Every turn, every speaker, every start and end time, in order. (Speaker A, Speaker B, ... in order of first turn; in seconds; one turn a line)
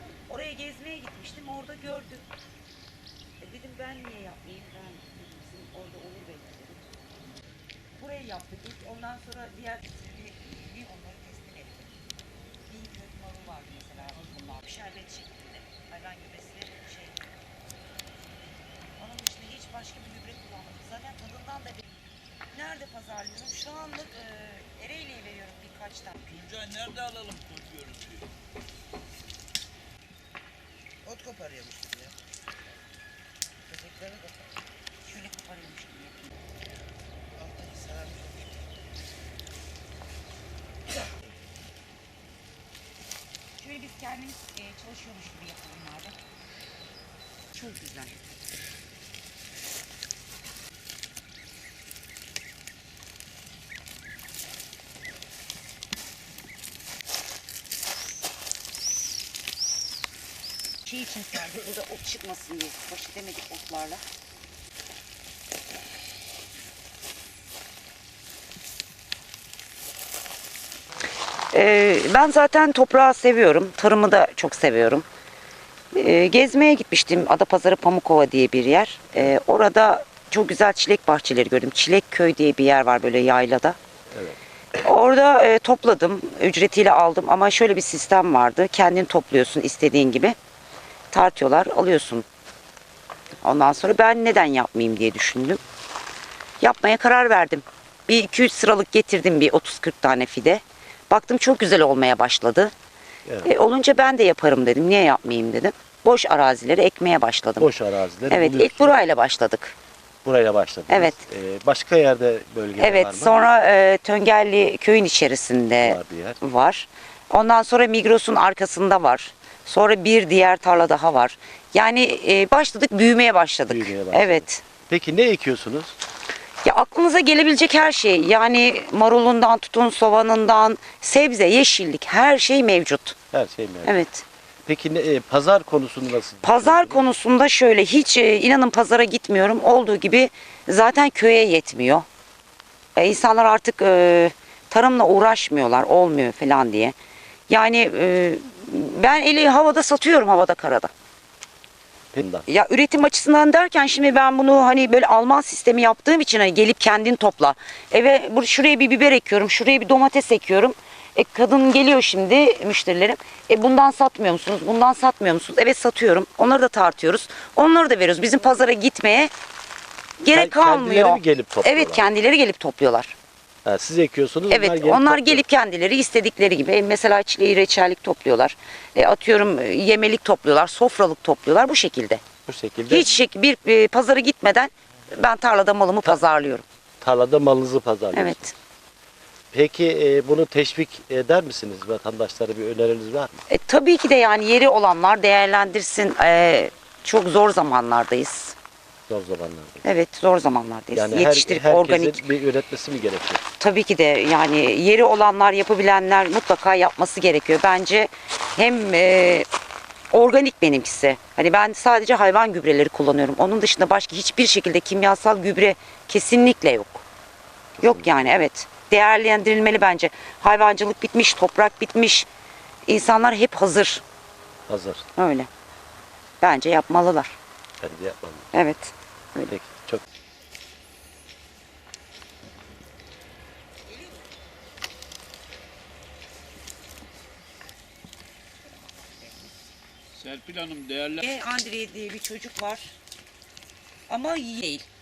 Speaker A: 0.3-2.3
Speaker A: 3.4-7.1
Speaker A: 8.0-11.9
Speaker A: 12.7-17.2
Speaker A: 19.0-21.9
Speaker A: 22.5-26.5
Speaker B: 26.4-28.3
Speaker C: 31.1-32.1
Speaker A: 33.7-34.3
Speaker A: 35.0-36.4
Speaker C: 37.4-38.5
Speaker A: 43.6-46.2
Speaker A: 47.5-48.2
Speaker A: 60.8-64.0
Speaker A: 71.5-75.0
Speaker A: 75.9-83.8
Speaker D: 84.1-84.4
Speaker A: 84.8-90.3
Speaker A: 91.1-92.2
Speaker A: 93.4-95.6
Speaker A: 96.6-102.7
Speaker D: 103.2-103.5
Speaker A: 103.4-107.7
Speaker D: 107.6-109.0
Speaker A: 108.3-109.8
Speaker D: 110.2-113.4
Speaker A: 110.9-111.2
Speaker A: 112.8-124.6
Speaker D: 115.8-116.4
Speaker D: 123.7-126.0
Speaker A: 126.6-133.2
Speaker D: 133.3-134.0
Speaker A: 133.8-134.2
Speaker D: 134.7-137.1
Speaker A: 136.4-142.0
Speaker A: 142.9-146.9
Speaker A: 147.5-150.9
Speaker D: 152.1-152.4
Speaker A: 152.4-169.3
Speaker A: 170.2-173.2
Speaker D: 170.3-172.0
Speaker D: 173.6-175.4
Speaker A: 174.5-182.2
Speaker D: 182.5-183.1
Speaker A: 182.9-186.6
Speaker D: 187.0-188.5
Speaker A: 188.1-188.5
Speaker D: 189.5-193.3
Speaker A: 193.5-198.6
Speaker D: 199.1-199.8
Speaker A: 199.8-202.2
Speaker D: 200.9-203.4
Speaker A: 203.6-209.5
Speaker A: 210.1-217.0
Speaker D: 217.7-218.1
Speaker A: 217.8-222.3
Speaker A: 222.9-224.0
Speaker D: 224.7-225.0
Speaker A: 225.2-225.5
Speaker A: 226.4-227.3
Speaker D: 227.8-228.5
Speaker A: 228.5-229.5
Speaker D: 229.5-230.0
Speaker B: 240.1-241.2
Speaker A: 241.2-242.9
Speaker A: 244.1-244.9